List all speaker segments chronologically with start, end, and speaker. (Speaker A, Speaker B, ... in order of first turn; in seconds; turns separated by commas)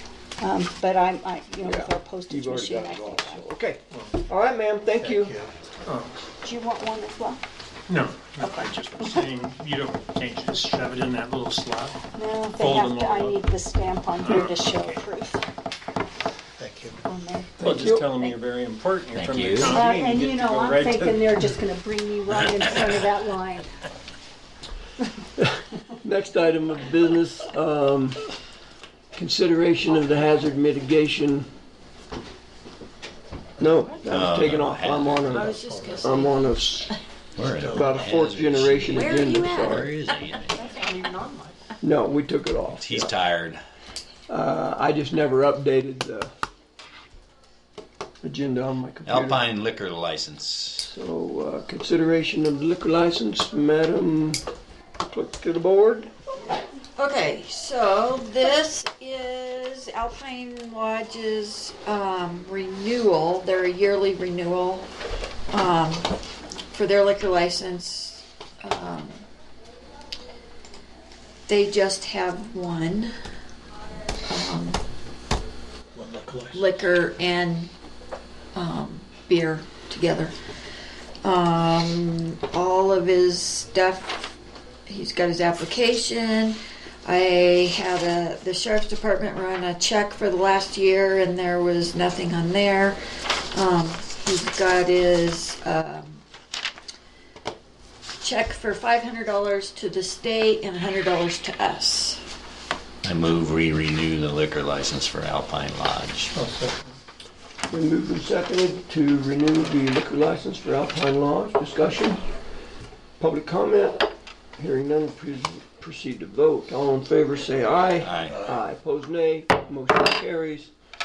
Speaker A: 0.4-3.4, Speaker B: 1.6-5.3, Speaker C: 3.9-4.2, Speaker D: 5.0-5.5, Speaker C: 5.8-6.2, Speaker A: 6.4-7.4, Speaker C: 7.9-12.0, Speaker A: 8.4-9.2, Speaker A: 12.2-15.4, Speaker C: 12.6-13.4, Speaker C: 14.2-14.6, Speaker D: 16.6-17.0, Speaker A: 17.1-17.5, Speaker B: 17.6-18.1, Speaker C: 17.6-21.3, Speaker E: 19.1-19.8, Speaker A: 19.6-23.7, Speaker B: 25.4-28.2, Speaker B: 29.1-31.5, Speaker B: 33.6-36.9, Speaker E: 34.0-35.6, Speaker F: 35.2-37.0, Speaker D: 35.5-36.1, Speaker E: 37.4-40.7, Speaker D: 37.5-38.2, Speaker B: 37.7-39.9, Speaker F: 38.9-39.9, Speaker F: 40.5-41.6, Speaker B: 41.8-43.1, Speaker E: 42.7-43.6, Speaker B: 44.3-46.3, Speaker B: 48.2-49.5, Speaker E: 49.0-50.9, Speaker B: 50.8-54.4, Speaker B: 55.1-56.1, Speaker F: 57.0-64.9, Speaker F: 65.5-66.1, Speaker F: 66.7-69.2, Speaker F: 71.5-73.1, Speaker F: 74.3-74.8, Speaker D: 75.9-76.7, Speaker F: 76.5-77.7, Speaker F: 78.5-80.3, Speaker F: 81.2-84.2, Speaker F: 84.9-93.0, Speaker F: 93.5-96.2, Speaker F: 98.2-102.2, Speaker E: 103.0-106.3, Speaker D: 106.3-107.0, Speaker B: 107.7-112.2, Speaker B: 113.2-120.7, Speaker E: 118.0-118.4, Speaker D: 118.3-118.6